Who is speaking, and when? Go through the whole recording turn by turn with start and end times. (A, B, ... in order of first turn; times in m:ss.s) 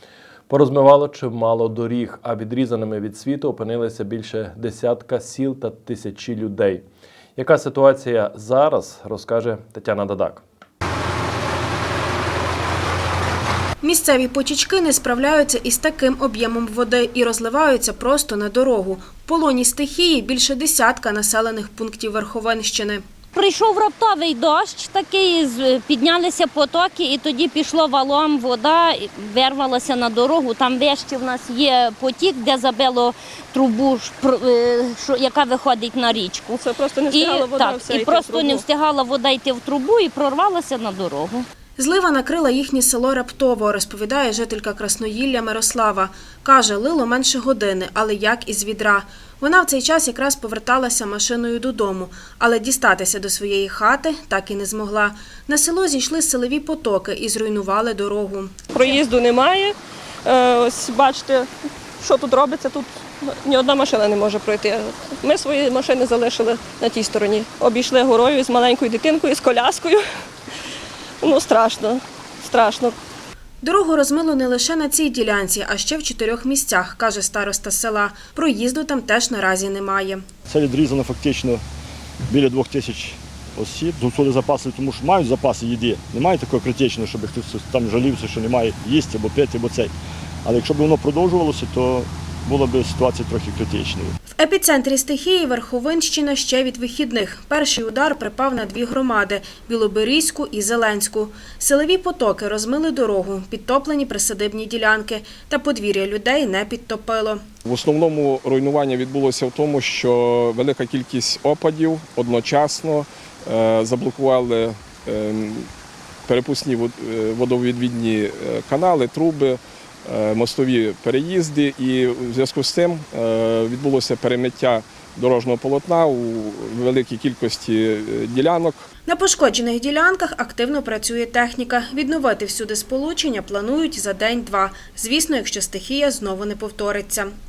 0:00.5-0:06.8 A
0:07.4-0:10.4 A
0:13.8-0:23.0 B
0:23.4-0:41.4 C
0:36.6-0:38.7 D
0:41.8-0:58.6 B
0:58.7-0:59.7 D
1:00.3-1:01.5 D
1:02.0-1:02.9 D
1:03.4-1:10.0 D
1:11.2-1:13.0 D
1:13.6-1:20.3 B
1:20.5-1:21.6 E
1:22.3-1:29.9 E
1:30.4-1:34.1 E
1:34.4-1:47.4 B
1:47.6-1:55.7 F
1:56.3-2:08.9 F
2:09.1-2:17.3 B